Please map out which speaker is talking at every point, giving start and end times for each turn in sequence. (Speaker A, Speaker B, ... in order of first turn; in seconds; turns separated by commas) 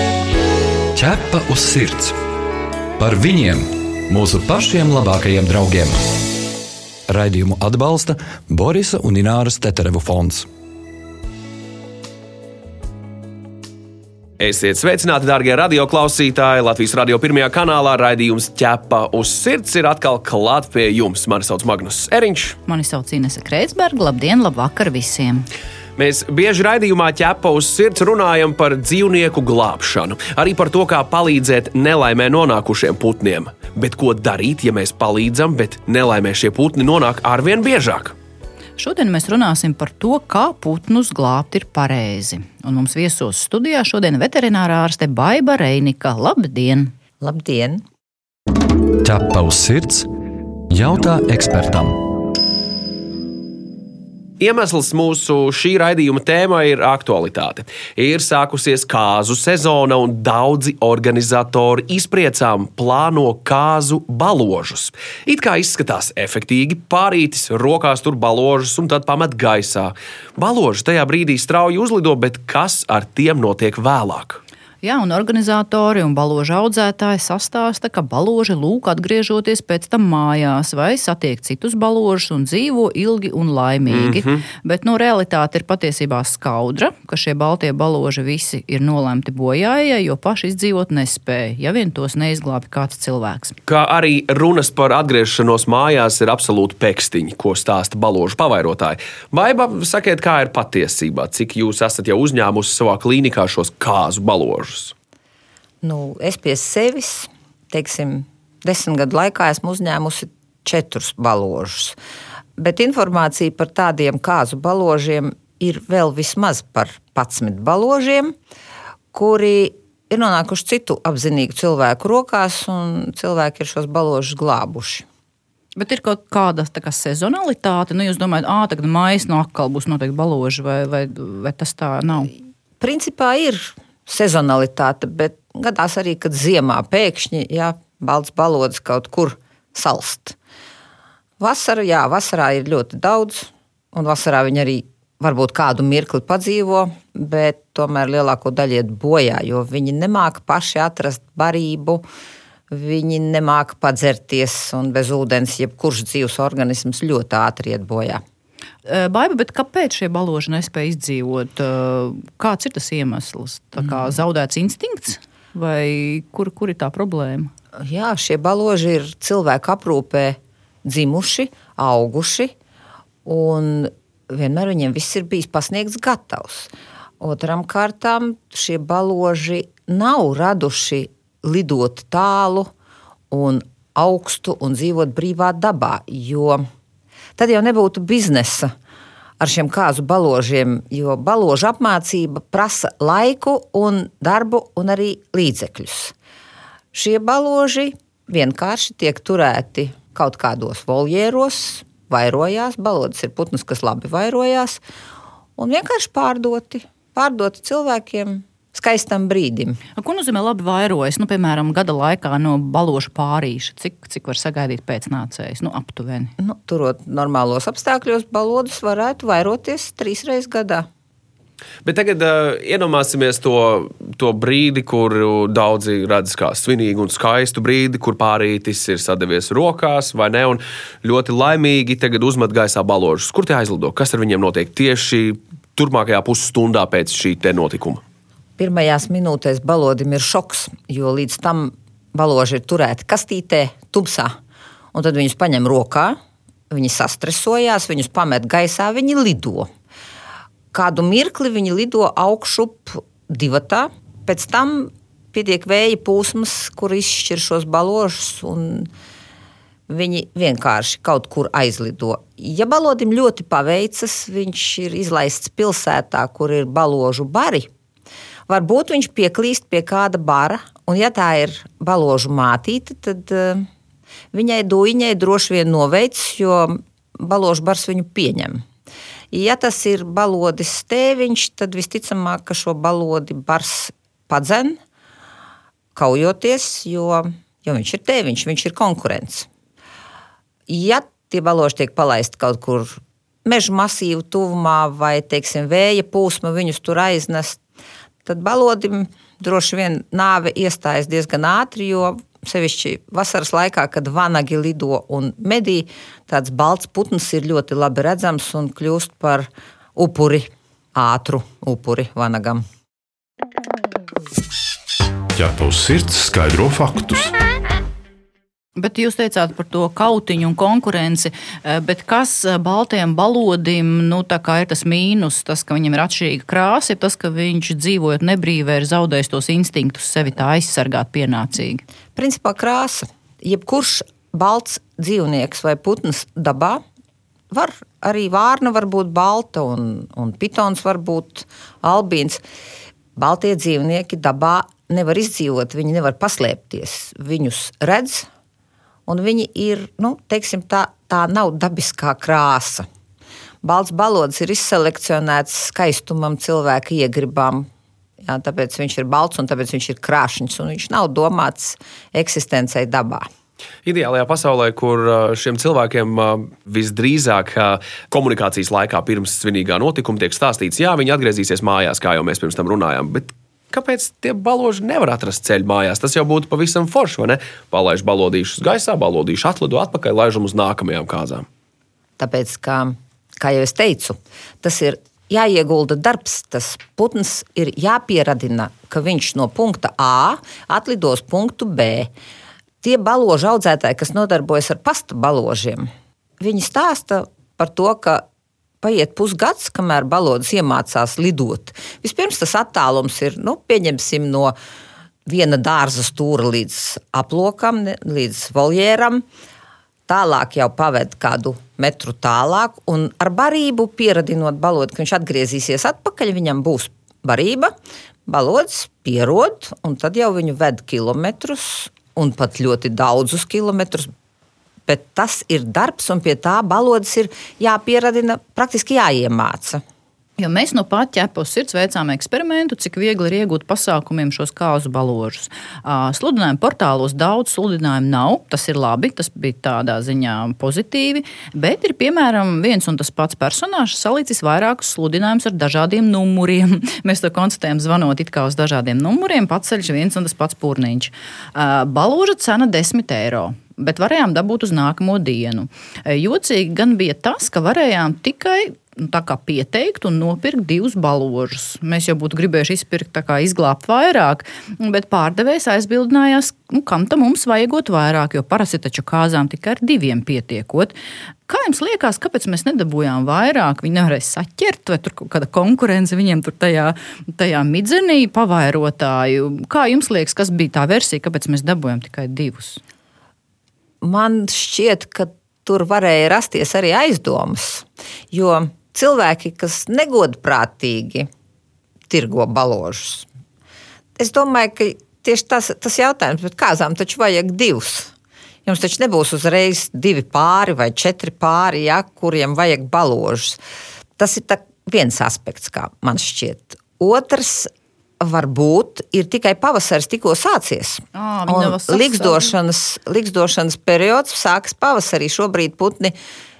Speaker A: 0.9-2.2, Speaker A: 3.0-6.2, Speaker A: 7.1-10.5, Speaker B: 14.4-22.6, Speaker C: 22.6-25.5, Speaker B: 26.0-38.1, Speaker C: 38.8-46.9, Speaker D: 47.2-47.8, Speaker A: 49.0-50.1, Speaker A: 50.7-52.0, Speaker B: 54.4-74.4, Speaker C: 74.8-93.6, Speaker B: 83.9-84.4, Speaker B: 93.7-104.9, Speaker D: 105.8-112.0, Speaker D: 112.6-118.3, Speaker D: 119.1-125.0, Speaker C: 125.8-132.3, Speaker D: 132.8-140.3, Speaker D: 141.4-152.0, Speaker D: 152.7-158.2, Speaker C: 158.8-167.5, Speaker D: 167.8-172.5, Speaker D: 173.2-182.7, Speaker D: 183.3-186.6, Speaker D: 187.4-188.7, Speaker D: 189.4-196.1, Speaker D: 196.9-204.8, Speaker D: 205.6-209.8, Speaker C: 210.0-216.3, Speaker D: 216.4-220.9, Speaker B: 221.8-238.0, Speaker D: 238.6-244.3, Speaker D: 244.9-246.2, Speaker D: 246.7-249.7, Speaker D: 250.7-258.9, Speaker D: 259.9-267.7, Speaker D: 268.5-273.6, Speaker D: 274.3-278.6, Speaker D: 279.3-284.8, Speaker D: 285.9-289.5, Speaker D: 290.7-297.6, Speaker D: 298.2-312.6, Speaker E: 315.3-317.3, Speaker C: 318.8-331.8, Speaker D: 332.1-336.8, Speaker D: 337.5-342.4, Speaker D: 343.1-348.3, Speaker D: 349.1-352.9, Speaker D: 353.6-357.7, Speaker D: 358.2-363.3, Speaker B: 363.8-381.4, Speaker D: 382.2-392.1, Speaker D: 392.8-395.9, Speaker D: 396.4-398.2, Speaker D: 398.8-404.6, Speaker D: 405.2-409.2, Speaker D: 410.1-417.7, Speaker D: 418.2-424.1, Speaker D: 424.9-429.8, Speaker C: 430.4-470.9, Speaker C: 471.5-482.8, Speaker D: 484.0-491.3, Speaker D: 492.1-493.3, Speaker D: 494.2-498.1, Speaker D: 498.6-503.6, Speaker D: 504.2-516.1, Speaker C: 511.1-512.5